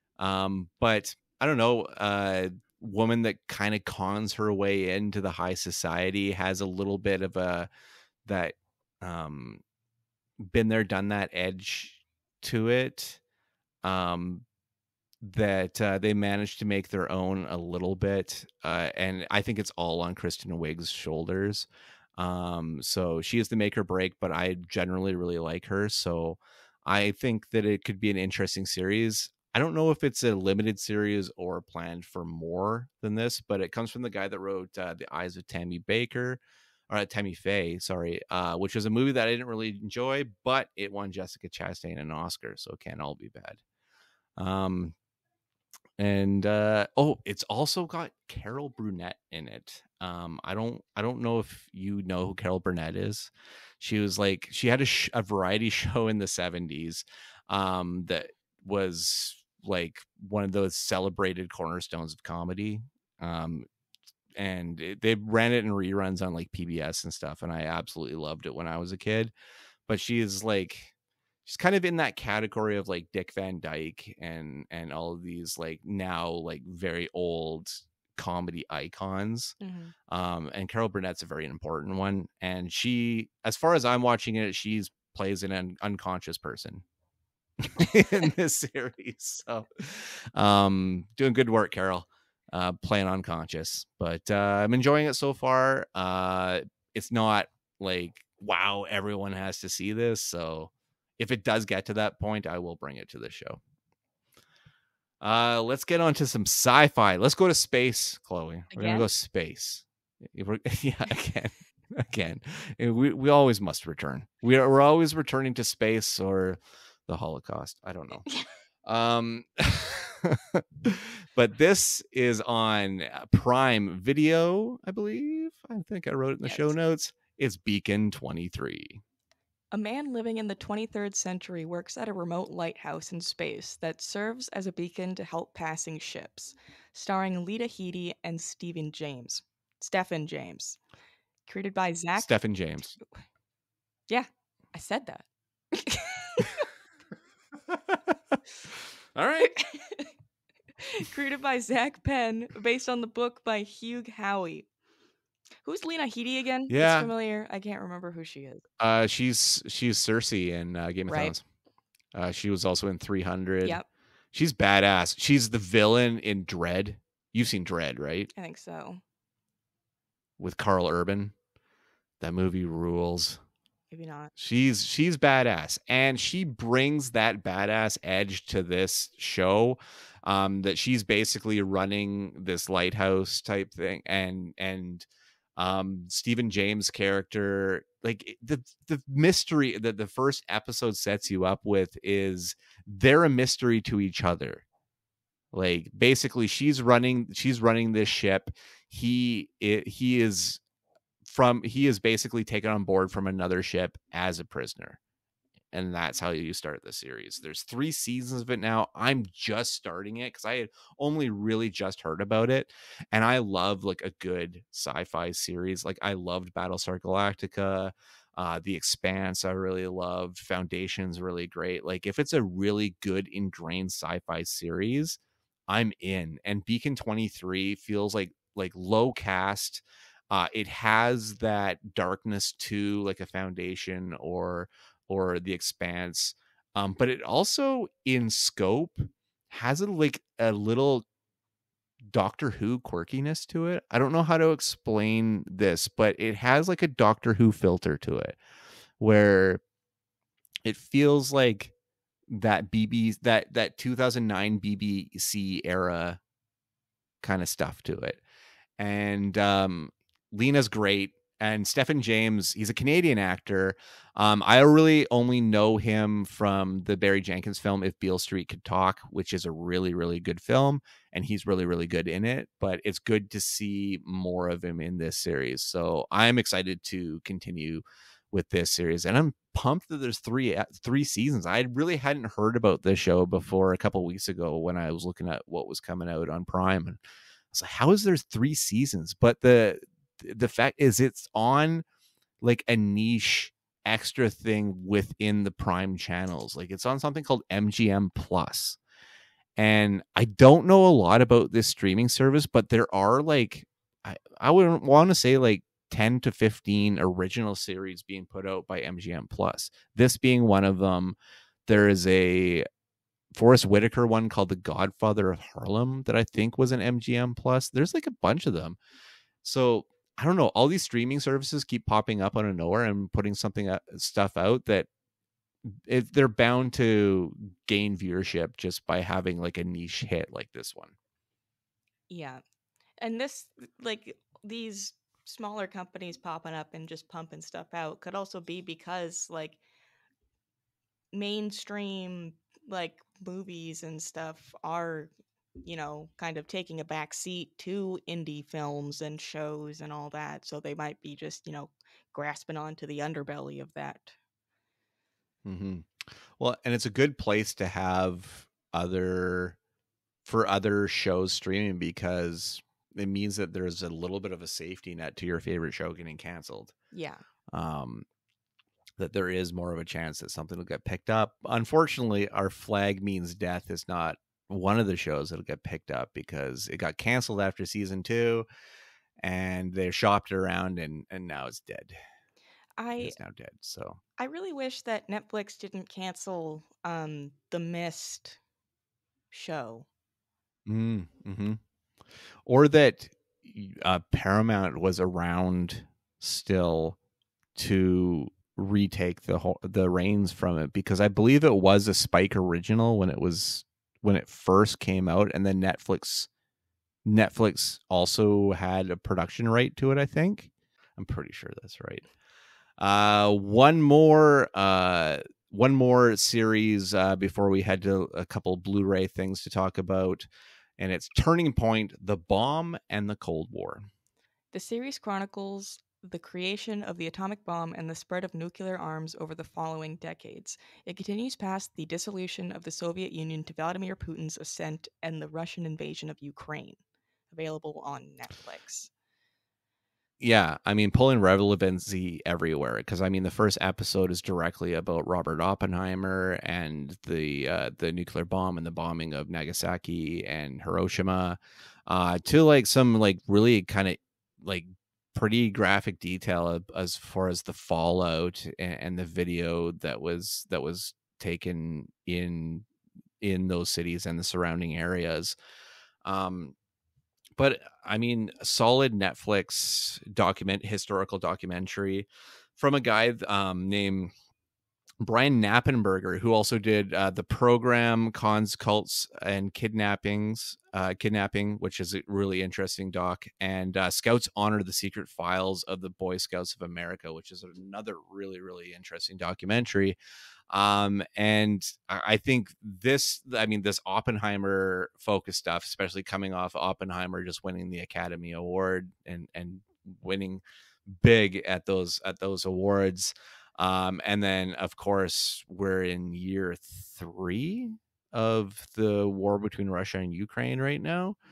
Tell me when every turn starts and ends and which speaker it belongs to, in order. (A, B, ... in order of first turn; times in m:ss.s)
0:00.2-0:07.7 A
0:08.2-0:09.6 A
0:10.4-0:13.2 A
0:13.8-0:14.4 A
0:15.2-0:43.6 A
0:44.4-0:44.9 A
0:46.0-1:03.6 A
1:04.4-1:09.3 A
1:09.9-1:10.9 A
1:11.4-1:19.6 A
1:19.6-1:19.9 B
1:20.1-1:26.8 A
1:27.6-1:43.6 A
1:45.2-1:58.3 A
1:48.7-1:49.1 B
1:58.8-2:09.0 A
2:06.4-2:06.7 B
2:09.7-2:20.8 B
2:21.4-2:22.3 B
2:22.2-2:23.0 A
2:24.1-2:26.7 B
2:27.7-2:29.5 A
2:29.4-2:30.1 B
2:30.8-2:34.7 B
2:35.6-2:38.6 B
2:36.7-2:37.1 A
2:38.8-2:41.4 A
2:41.1-2:41.3 B
2:42.1-2:43.8 A
2:44.3-2:48.3 A
2:48.3-2:49.0 B
2:50.4-2:51.3 A
2:52.2-2:53.4 A
2:53.9-2:54.3 B
2:54.4-3:14.6 A
3:15.5-3:20.6 A
3:21.2-3:25.0 A
3:25.7-4:01.0 A
4:02.1-4:08.4 A
4:09.0-4:09.6 A
4:10.6-4:11.7 A
4:12.3-4:16.2 A
4:17.2-4:18.2 A
4:18.8-4:47.0 A
4:47.5-4:51.8 A
4:52.4-4:58.8 A
4:59.6-5:12.6 A
5:13.4-5:18.8 A
5:19.4-5:24.9 A
5:25.7-5:30.9 A
5:32.1-5:32.4 B
5:33.0-5:39.6 B
5:41.1-5:45.1 B
5:45.6-5:54.2 B
5:55.4-5:59.6 A
6:00.2-6:06.7 A
6:06.9-6:07.2 B
6:07.5-6:08.0 A
6:09.0-6:18.4 A
6:19.2-6:22.0 A
6:22.8-6:23.2 B
6:23.0-6:24.0 A
6:24.2-6:28.4 B
6:29.3-6:29.9 B
6:30.6-6:31.6 A
6:32.4-6:37.0 A
6:37.6-6:46.3 A
6:47.0-6:52.1 A
6:52.8-7:03.9 A
7:04.5-7:16.8 B
7:17.3-7:18.9 B
7:20.2-7:42.6 A
7:43.2-7:45.4 A
7:46.0-7:46.5 A
7:47.4-7:54.1 A
7:55.0-8:10.0 A
8:10.5-8:31.2 A